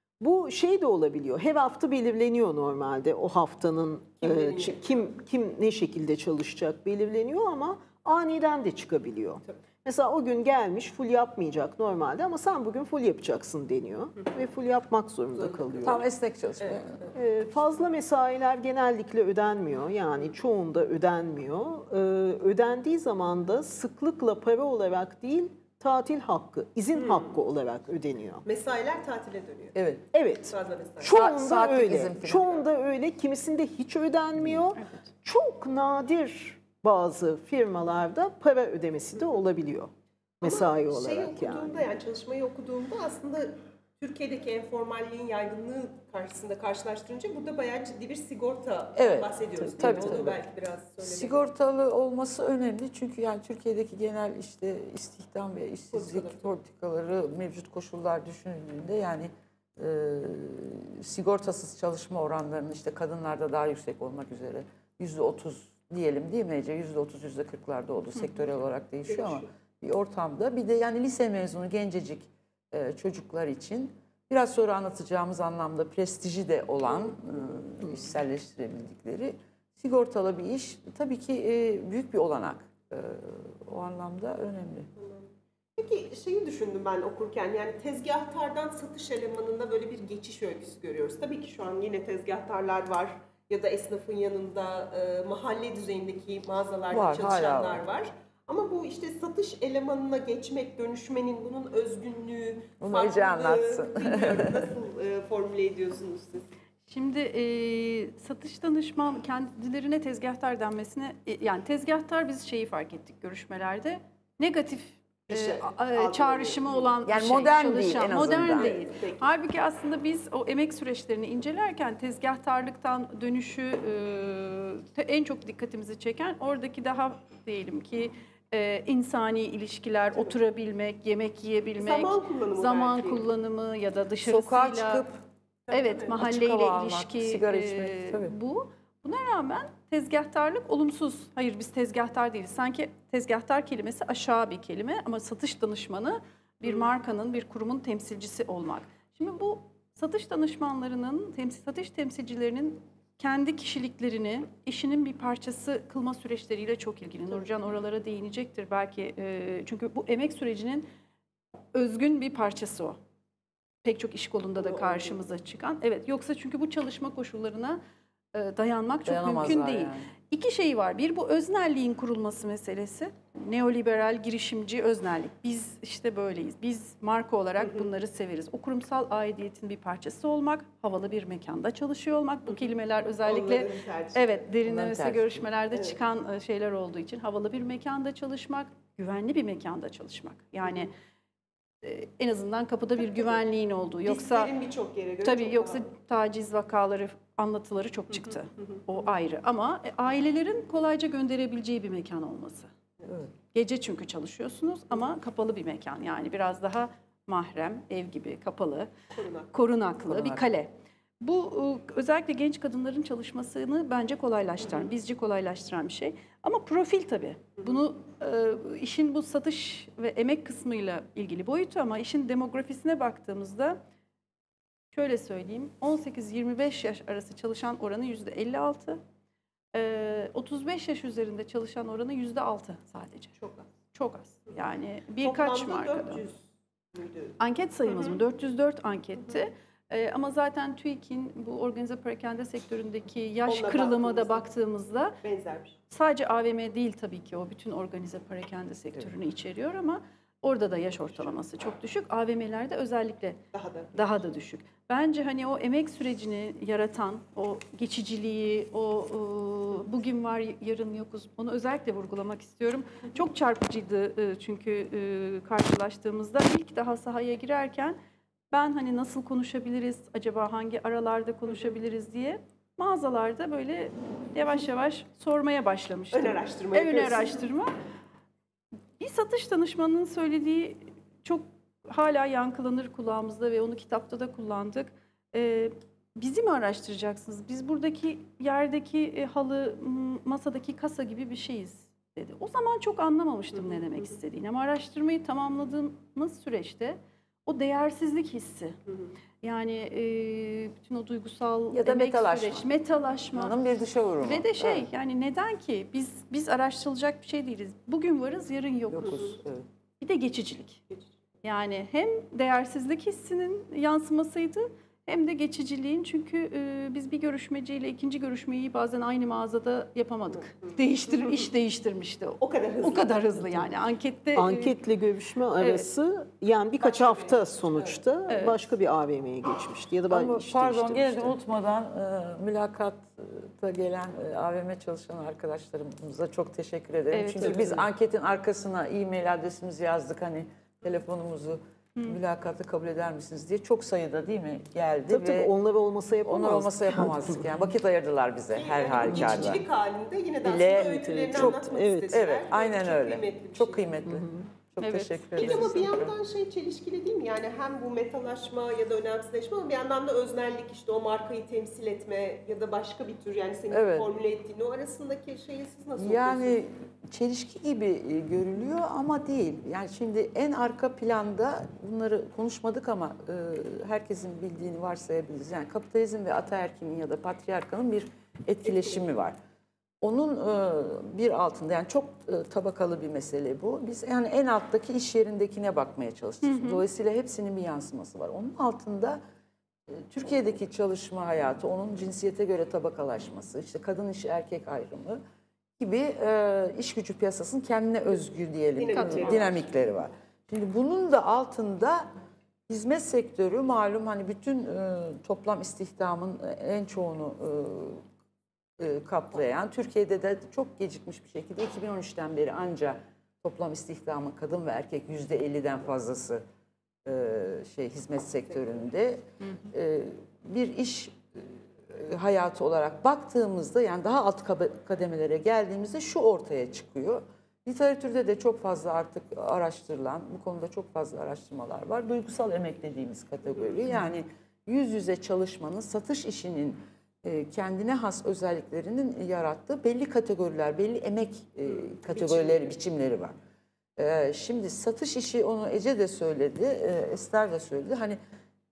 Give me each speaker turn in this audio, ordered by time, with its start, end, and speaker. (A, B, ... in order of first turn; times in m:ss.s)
0:00.2-0:16.0 A
0:04.2-0:04.8 B
0:15.8-0:17.1 C
0:17.1-0:28.4 A
0:27.0-0:27.3 B
0:28.4-0:29.8 B
0:29.8-0:30.0 C
0:30.1-0:41.9 A
0:30.5-0:31.2 B
0:31.1-0:32.6 C
0:34.8-0:35.1 D
0:40.4-0:51.4 B
0:49.0-0:50.4 C
0:49.9-0:50.2 A
0:51.0-1:24.9 C
0:55.9-0:56.4 B
1:09.1-1:09.4 B
1:25.0-1:46.5 B
1:36.9-1:37.8 C
1:42.8-1:44.7 C
1:46.9-2:15.0 D
1:55.3-1:56.8 B
1:57.0-1:58.8 C
1:58.6-1:59.3 B
2:11.8-2:13.2 B
2:14.2-2:15.2 C
2:15.7-2:16.2 B
2:15.7-2:40.9 D
2:16.2-2:18.3 C
2:41.7-2:43.0 D
2:43.8-2:47.8 D
2:44.6-2:45.1 B
2:48.3-3:10.9 D
2:49.1-2:50.1 C
3:03.2-3:04.4 B
3:04.6-3:05.5 C
3:11.8-3:14.5 D
3:14.0-3:15.8 B
3:15.2-3:22.7 D
3:23.5-3:28.9 D
3:29.1-3:29.5 B
3:29.5-3:43.8 D
3:30.1-3:30.4 C
3:44.9-3:49.0 D
3:49.7-3:53.4 D
3:53.4-3:53.6 B
3:53.9-3:56.2 D
3:55.2-3:56.4 B
3:56.9-3:57.4 B
3:57.4-4:05.2 D
3:57.9-3:58.2 B
4:03.5-4:04.4 B
4:05.2-4:05.8 B
4:05.9-4:13.4 D
4:13.5-4:14.1 B
4:13.9-4:28.0 D
4:28.5-4:37.7 D
4:36.1-4:37.5 B
4:39.0-4:58.8 D
4:59.4-5:03.6 D
5:01.7-5:02.6 C
5:03.3-5:04.9 C
5:04.2-5:09.4 D
5:08.9-5:09.6 C
5:10.0-5:10.8 D
5:11.4-5:24.8 D
5:22.4-5:23.4 B
5:24.4-5:31.4 A
5:25.6-5:25.9 D
5:26.8-5:28.0 B
5:28.3-5:28.6 D
5:30.1-5:45.5 C
5:37.1-5:37.8 D
5:45.1-5:47.5 A
5:46.2-5:49.6 C
5:48.6-5:53.9 B
5:49.1-5:49.6 A
5:50.4-5:56.1 C
5:50.7-5:52.2 A
5:54.1-5:54.4 A
5:54.8-5:55.8 D
5:55.4-6:06.6 B
6:03.7-6:04.1 C
6:06.0-6:19.4 C
6:18.6-6:19.0 B
6:20.0-6:29.2 C
6:26.4-6:26.8 D
6:29.9-6:35.2 C
6:35.8-6:42.1 C
6:38.8-6:39.6 B
6:38.9-6:39.6 D
6:42.7-6:48.0 C
6:48.8-6:56.4 C
6:57.0-7:23.4 C
6:59.4-6:59.6 D
7:22.1-7:22.6 B
7:24.0-7:28.2 C